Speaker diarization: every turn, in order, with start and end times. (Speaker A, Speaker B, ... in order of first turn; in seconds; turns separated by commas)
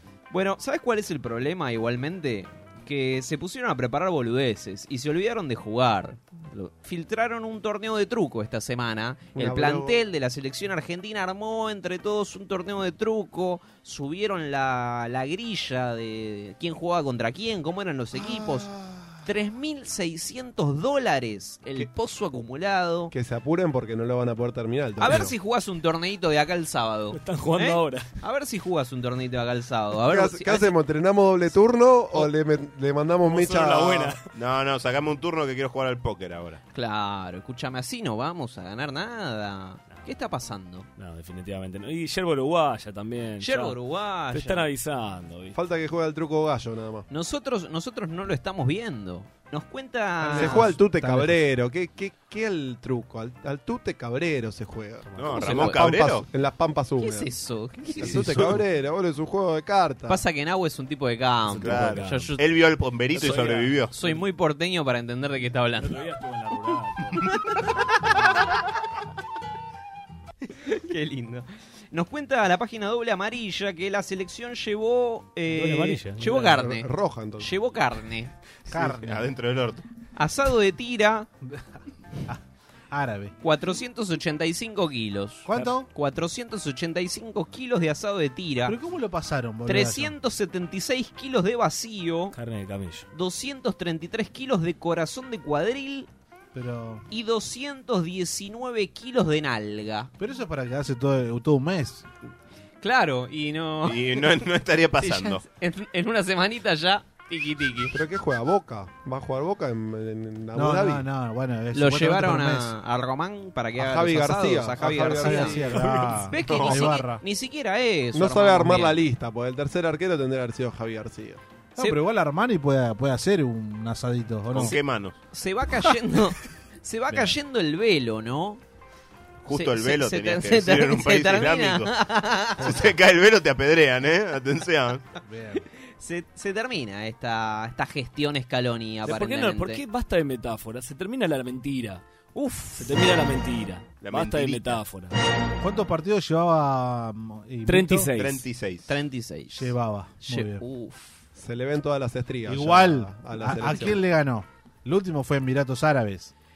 Speaker A: 0.3-18.7, Speaker B: 9.3-10.0, Speaker B: 18.2-19.1, Speaker A: 19.2-23.1, Speaker B: 23.1-25.3, Speaker A: 25.0-30.8, Speaker C: 27.1-28.1, Speaker B: 30.1-34.2, Speaker C: 33.3-34.2, Speaker D: 34.3-36.6, Speaker A: 36.7-40.9, Speaker C: 41.0-43.8, Speaker A: 43.4-44.7, Speaker C: 44.3-45.6, Speaker B: 45.5-47.1, Speaker A: 47.1-50.7, Speaker E: 50.2-51.4, Speaker B: 50.3-57.3, Speaker C: 55.1-55.5, Speaker D: 55.2-56.3, Speaker A: 55.4-55.8, Speaker A: 57.0-58.3, Speaker B: 58.0-60.2, Speaker E: 58.1-58.6, Speaker A: 60.1-62.4, Speaker C: 61.5-62.3, Speaker D: 61.5-63.9, Speaker C: 63.1-64.2, Speaker A: 63.2-66.0, Speaker C: 65.8-67.3, Speaker A: 70.6-78.3, Speaker C: 75.5-76.6, Speaker B: 76.5-77.5, Speaker D: 78.7-79.8, Speaker E: 78.7-79.3, Speaker A: 80.2-81.3, Speaker E: 81.4-83.3, Speaker A: 83.4-88.8, Speaker E: 85.5-85.9, Speaker E: 88.7-90.2, Speaker A: 89.7-92.3, Speaker C: 92.3-93.1, Speaker A: 93.1-96.1, Speaker E: 96.5-97.0, Speaker A: 97.1-100.1, Speaker E: 100.2-102.1, Speaker A: 102.8-104.4, Speaker D: 103.8-105.4, Speaker A: 105.0-108.0, Speaker B: 107.9-111.0, Speaker E: 110.5-112.8, Speaker A: 111.7-115.6, Speaker B: 113.8-115.8, Speaker E: 115.0-117.2, Speaker D: 115.8-117.0, Speaker A: 116.3-119.0, Speaker B: 118.1-121.4, Speaker E: 121.8-124.8, Speaker D: 124.5-125.2, Speaker A: 124.6-128.6, Speaker D: 129.4-131.9, Speaker A: 129.5-132.8, Speaker D: 132.6-135.0, Speaker E: 135.2-135.6, Speaker A: 136.0-139.8, Speaker C: 139.1-145.2, Speaker D: 144.0-144.8, Speaker E: 145.6-148.1, Speaker C: 147.7-148.5, Speaker D: 148.2-148.9, Speaker A: 148.9-151.2, Speaker E: 149.5-150.6, Speaker B: 151.4-154.0, Speaker E: 152.4-156.3